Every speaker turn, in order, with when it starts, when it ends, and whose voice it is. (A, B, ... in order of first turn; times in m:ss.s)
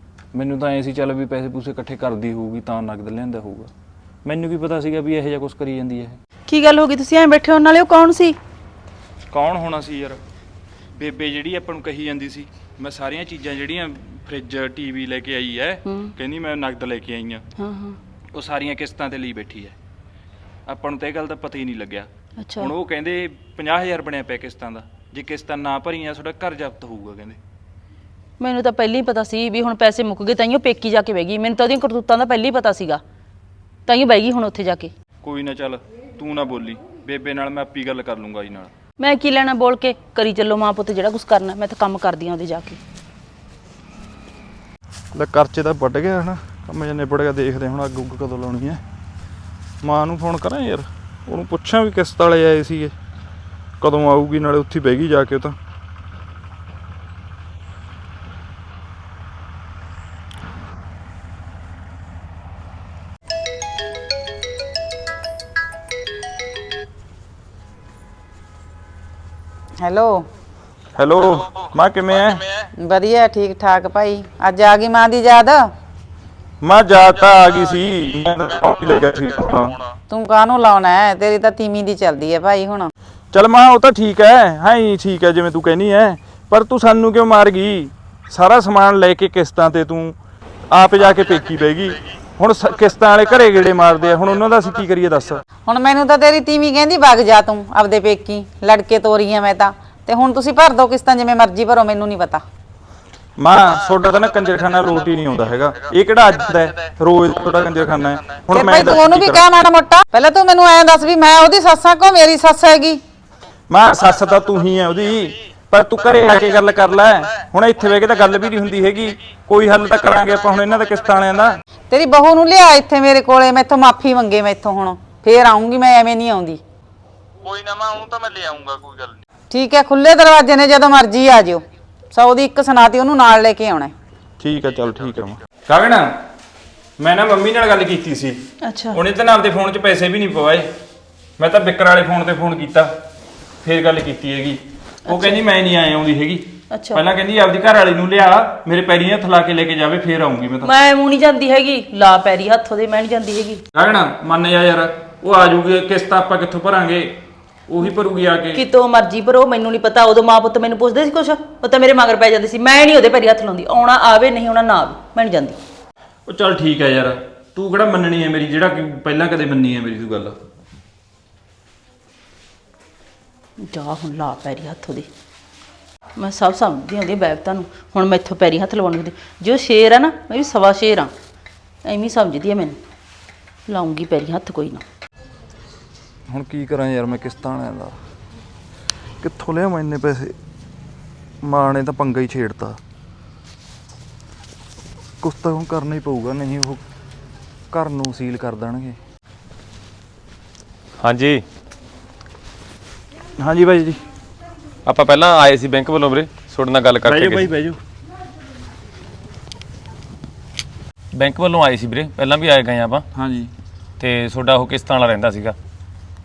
0:00.3-0:03.7 A
0:04.2-0:06.2 A
0:06.5-0:08.4 B
0:09.3-0:10.2 A
0:11.0-0:17.4 A
0:15.9-0:16.1 B
0:17.6-0:18.0 B
0:18.3-0:19.7 A
0:20.7-0:27.4 A
0:22.4-0:22.7 B
0:28.4-0:33.0 B
0:33.9-0:34.9 B
0:35.2-0:38.7 A
0:39.0-0:42.8 B
0:45.1-0:48.8 A
0:49.8-0:52.9 A
0:53.8-0:55.5 A
1:09.8-1:10.3 C
1:11.0-1:12.4 A
1:12.8-1:15.7 C
1:16.6-1:19.8 A
1:20.1-1:22.9 C
1:23.3-1:30.2 A
1:30.7-1:35.4 A
1:35.7-1:42.4 C
1:43.4-1:49.4 A
1:48.5-1:53.0 C
1:53.7-2:01.6 A
2:01.9-2:06.6 C
2:07.8-2:08.3 A
2:09.5-2:13.9 C
2:14.4-2:16.2 A
2:17.0-2:20.7 A
2:18.6-2:19.0 B
2:21.4-2:23.0 A
2:23.6-2:30.7 A
2:25.1-2:25.4 B
2:26.7-2:27.0 B
2:30.6-2:33.6 B
2:33.7-2:38.6 A
2:38.5-2:45.6 B
2:46.3-2:50.4 A
2:53.6-2:55.1 B
2:56.2-3:01.1 B
3:01.8-3:02.8 B
3:03.7-3:04.8 B
3:06.3-3:08.0 A
3:09.2-3:10.3 A
3:11.4-3:12.8 A
3:15.2-3:16.8 A
3:17.7-3:19.0 A
3:21.0-3:21.4 D
3:23.4-3:24.0 A
3:24.8-3:27.5 D
3:27.0-3:27.8 A
3:31.1-3:33.0 D
3:33.1-3:33.5 A
3:34.0-3:35.5 D